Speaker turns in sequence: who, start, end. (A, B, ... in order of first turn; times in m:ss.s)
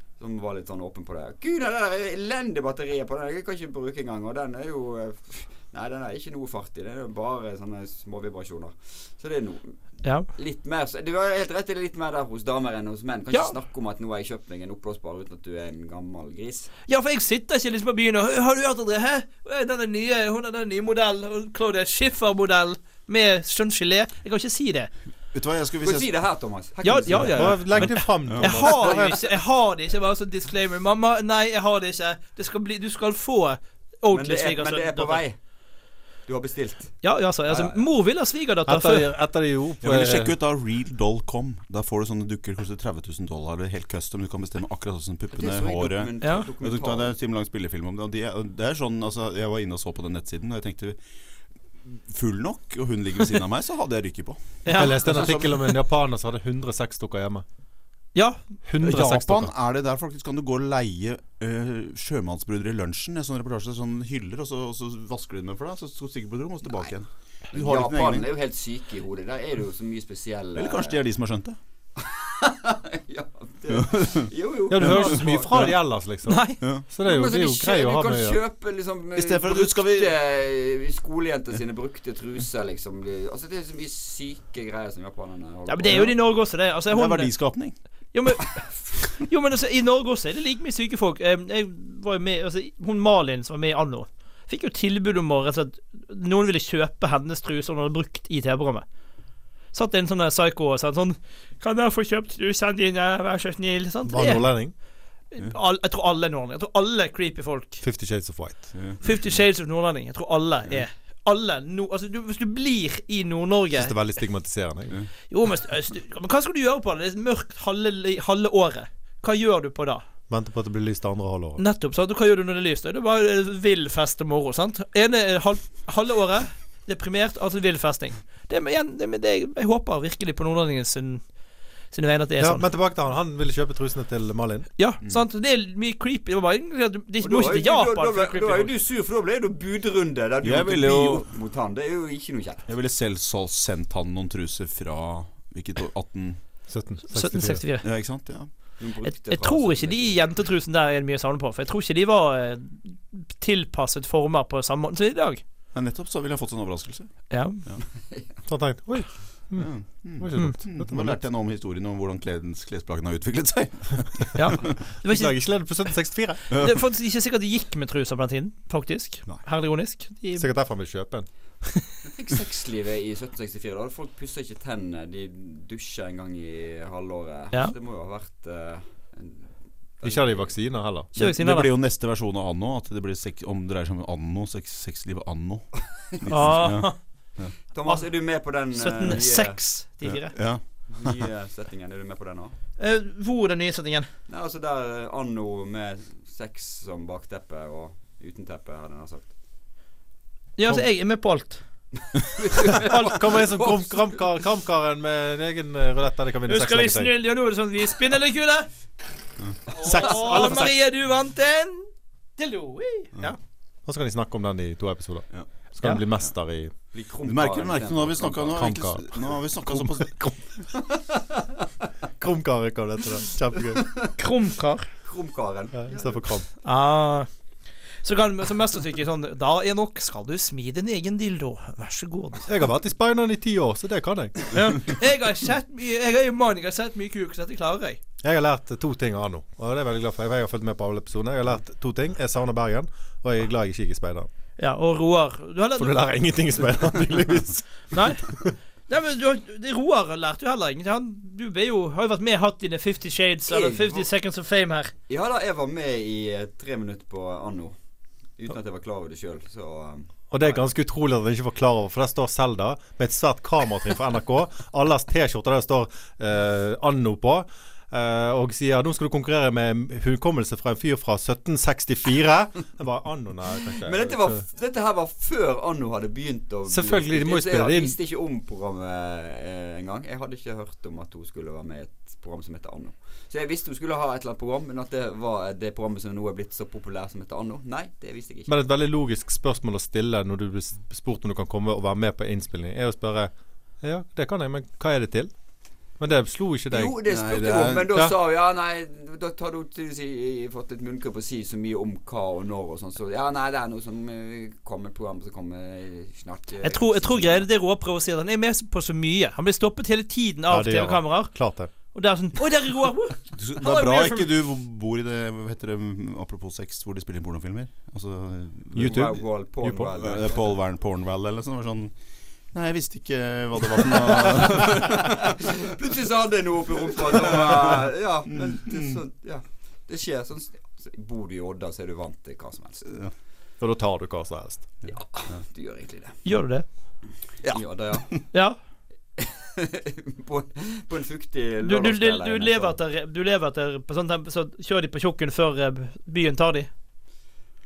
0:00.2-0:16.7 A
0:10.0-0:10.3 B
0:16.9-0:24.9 B
0:25.3-0:26.1 C
0:25.8-0:27.9 A
0:26.8-0:35.2 B
0:27.1-0:29.2 D
0:28.3-0:28.6 C
0:34.1-0:35.4 A
0:36.2-0:37.8 A
0:37.0-0:39.1 B
0:38.7-0:40.4 D
0:39.8-0:51.0 C
0:45.3-0:47.1 A
0:46.2-0:46.5 B
0:51.8-0:55.6 C
0:54.6-0:55.5 B
0:54.7-0:57.4 D
0:58.1-0:58.4 B
0:58.6-0:59.5 D
0:58.8-1:08.3 C
1:07.5-1:11.0 A
1:10.5-1:11.6 C
1:12.0-1:15.6 A
1:13.9-1:14.2 C
1:14.7-1:18.4 D
1:15.0-1:15.7 C
1:16.2-1:16.6 B
1:16.6-1:16.8 C
1:17.0-1:26.1 A
1:19.1-1:20.1 C
1:25.7-1:27.4 B
1:25.8-1:26.2 C
1:26.9-1:27.7 C
1:28.1-1:38.8 B
1:39.7-1:44.8 B
1:44.0-1:44.7 D
1:45.3-1:47.8 B
1:47.8-1:49.1 D
1:49.0-1:54.0 B
1:53.8-1:55.0 D
1:55.3-2:00.0 B
2:00.3-2:01.6 D
2:01.6-2:11.2 B
2:11.9-2:12.7 B
2:12.4-2:14.7 D
2:14.8-2:18.7 B
2:17.2-2:22.7 A
2:20.4-2:21.3 C
2:22.7-2:26.4 C
2:26.7-2:27.6 D
2:27.1-2:27.9 B
2:27.8-2:28.5 C
2:28.8-2:30.2 A
2:29.0-2:35.4 B
2:35.7-2:37.8 C
2:37.3-2:37.6 B
2:38.1-2:38.4 A
2:38.4-2:41.2 D
2:39.5-2:44.5 C
2:44.3-2:45.9 B
2:45.0-2:46.6 D
2:46.5-2:50.5 B
2:46.5-2:46.8 C
2:50.4-2:51.3 D
2:52.0-3:00.6 A
3:00.0-3:01.1 D
3:01.1-3:07.5 C
3:01.1-3:01.7 B
3:06.2-3:07.1 B
3:07.7-3:09.6 A
3:07.8-3:10.3 B
3:10.0-3:11.2 C
3:10.9-3:12.5 A
3:12.8-3:14.1 B
3:14.3-3:19.3 A
3:20.6-3:21.6 B
3:22.3-3:23.8 A
3:22.6-3:27.1 D
3:22.9-3:23.2 B
3:26.5-3:28.7 B
3:29.7-3:33.4 B
3:29.8-3:30.7 D
3:33.8-3:36.7 D
3:36.9-3:38.6 A
3:37.2-3:40.2 C
3:38.6-3:40.6 D
3:42.2-3:44.1 D
3:43.8-3:44.1 A
3:44.2-3:44.9 B
3:45.0-3:46.3 A
3:45.7-3:46.5 D
3:46.6-3:47.3 B
3:48.0-3:52.5 B
3:52.5-3:54.8 D
3:54.5-3:58.0 B
3:58.2-4:04.3 D
4:04.6-4:06.0 B
4:05.8-4:08.5 D
4:07.9-4:14.9 B
4:13.5-4:14.1 A
4:15.1-4:17.7 A
4:18.4-4:20.6 A
4:20.3-4:34.4 D
4:33.8-4:48.5 A
4:36.7-4:38.0 D
4:48.5-4:55.3 D
4:56.0-4:57.0 D
4:56.7-5:07.4 A
4:57.0-4:58.0 C
5:06.6-5:11.3 B
5:10.5-5:11.7 D
5:11.9-5:14.3 B
5:13.3-5:19.2 C
5:18.7-5:19.9 D
5:18.8-5:20.5 A
5:19.9-5:21.9 C
5:22.5-5:25.3 C
5:23.9-5:33.0 A
5:27.1-5:27.8 C
5:28.4-5:28.9 C
5:33.6-5:34.8 D
5:34.8-5:36.2 A
5:36.2-5:36.6 B
5:37.4-5:38.2 C
5:37.4-5:38.3 A
5:39.2-5:42.8 A
5:41.6-5:46.7 B